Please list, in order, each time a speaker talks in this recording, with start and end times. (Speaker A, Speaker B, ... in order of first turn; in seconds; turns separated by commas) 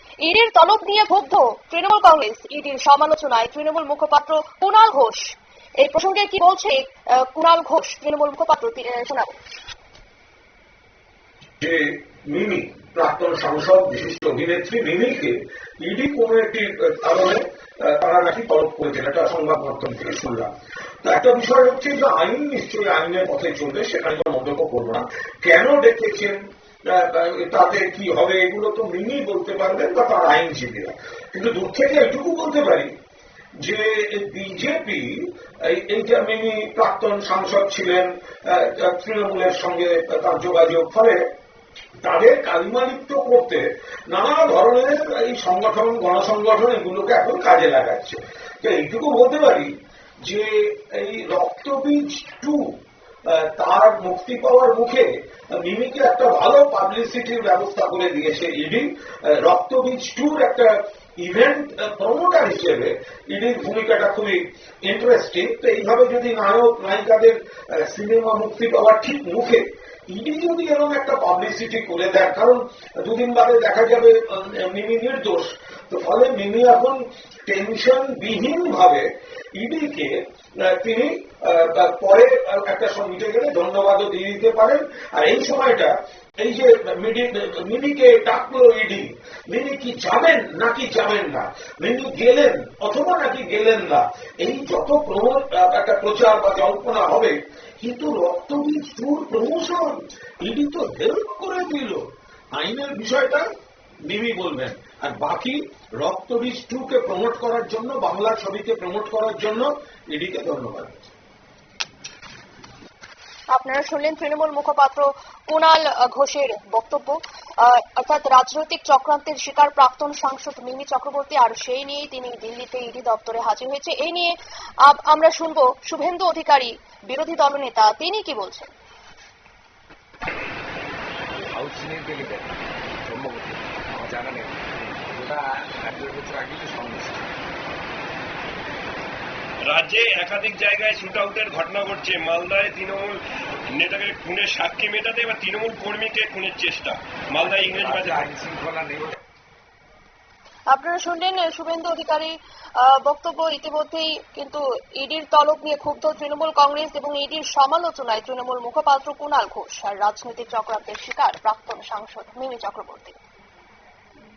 Speaker A: 0.2-9.3, Speaker B: 11.6-20.5, Speaker B: 21.0-32.9, Speaker B: 33.6-41.2, Speaker B: 42.0-49.7, Speaker B: 50.2-52.7, Speaker B: 53.2-103.5, Speaker B: 104.0-111.1, Speaker A: 113.5-128.7, Speaker C: 131.4-132.5, Speaker C: 133.1-137.2, Speaker D: 139.6-148.3, Speaker C: 147.4-149.2, Speaker A: 150.7-163.2